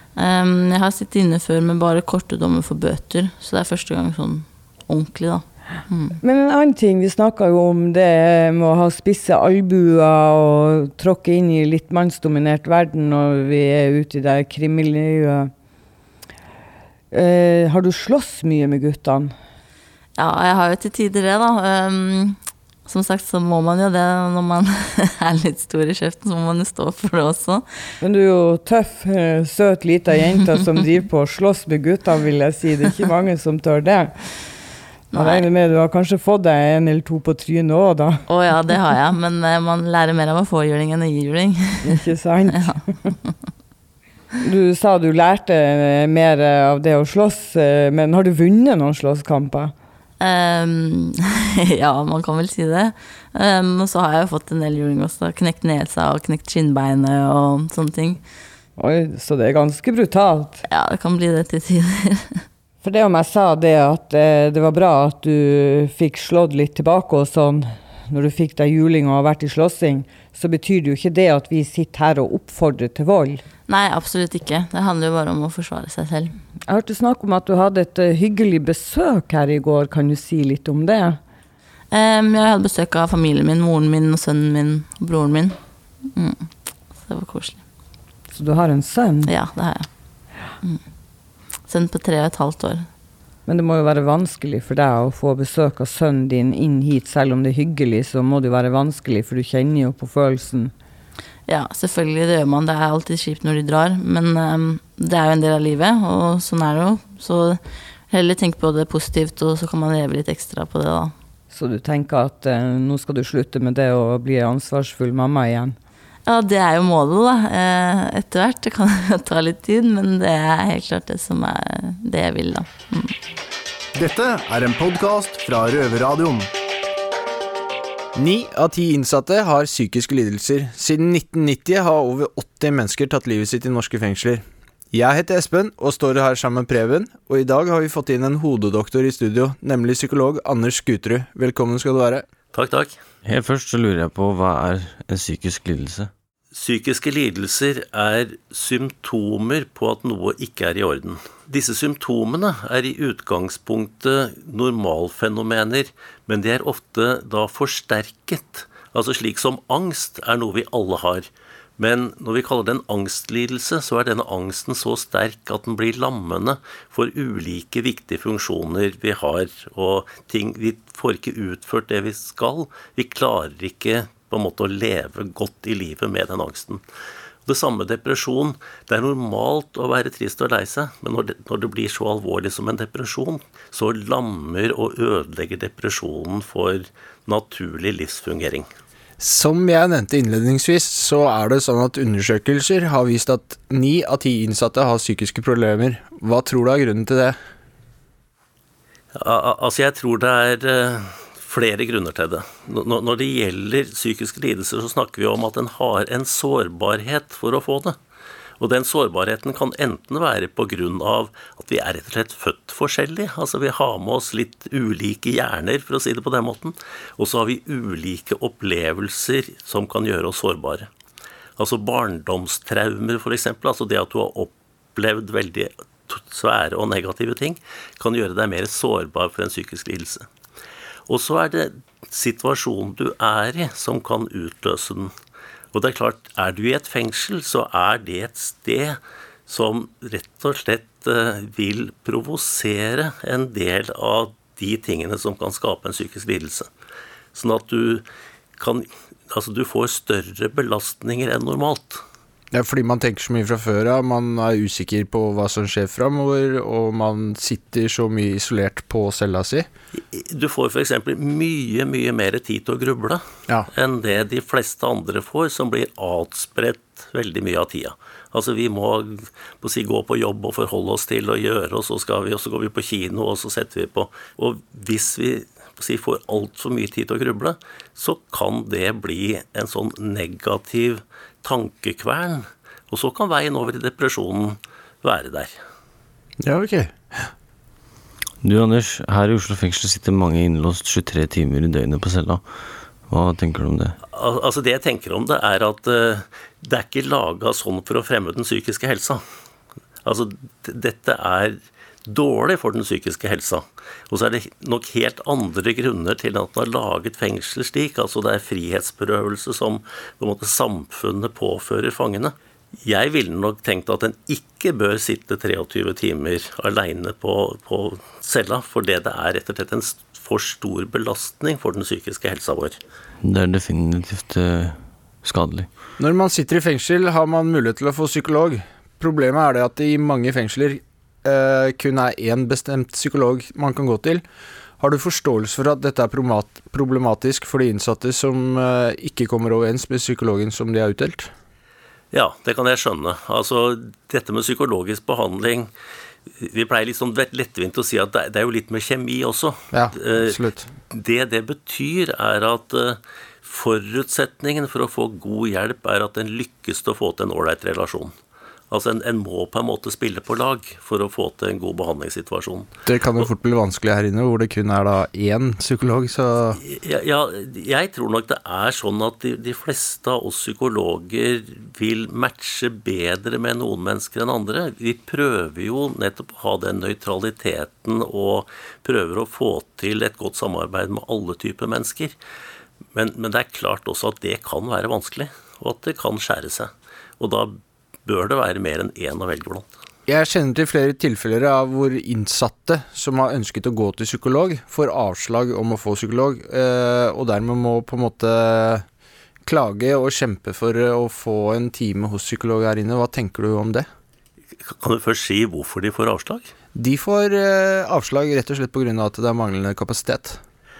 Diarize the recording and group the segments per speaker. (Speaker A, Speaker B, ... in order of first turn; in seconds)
Speaker A: 0.2-6.2, 20.2-27.7, 35.1-35.5, 38.3-42.0, 42.6-42.8, 50.2-58.2, 60.7-62.4, 73.7-76.4, 81.9-87.7, 89.2-92.9, 101.5-111.1, 116.3-123.2
Speaker B: 6.2-15.5, 17.1-19.4, 28.0-34.5, 35.1-38.2, 41.8-43.1, 44.4-49.7, 58.8-60.6, 62.8-73.4, 76.7-81.2, 88.3-89.3, 93.5-100.7, 111.5-115.8
Speaker C: 124.0-126.5
Speaker D: 128.2-142.2, 189.2-197.4, 252.5-259.7, 286.4-287.3, 326.0-334.2, 334.8-341.3, 349.7-350.7, 362.9-366.6, 390.1-398.9, 399.4-403.9, 406.8-410.4
Speaker E: 142.5-143.0, 146.5-176.8, 177.5-188.7, 199.2-208.0, 208.6-220.9, 221.6-230.3, 231.1-235.1, 235.7-246.7, 247.3-248.0, 248.6-252.0, 260.1-285.6, 294.1-299.2, 300.0-322.8, 342.1-345.7, 346.4-358.1, 358.7-362.7, 366.6-382.2, 382.9-389.7, 404.6-406.5
Speaker F: 143.2-146.1, 288.4-292.4, 293.0-294.0, 323.2-325.7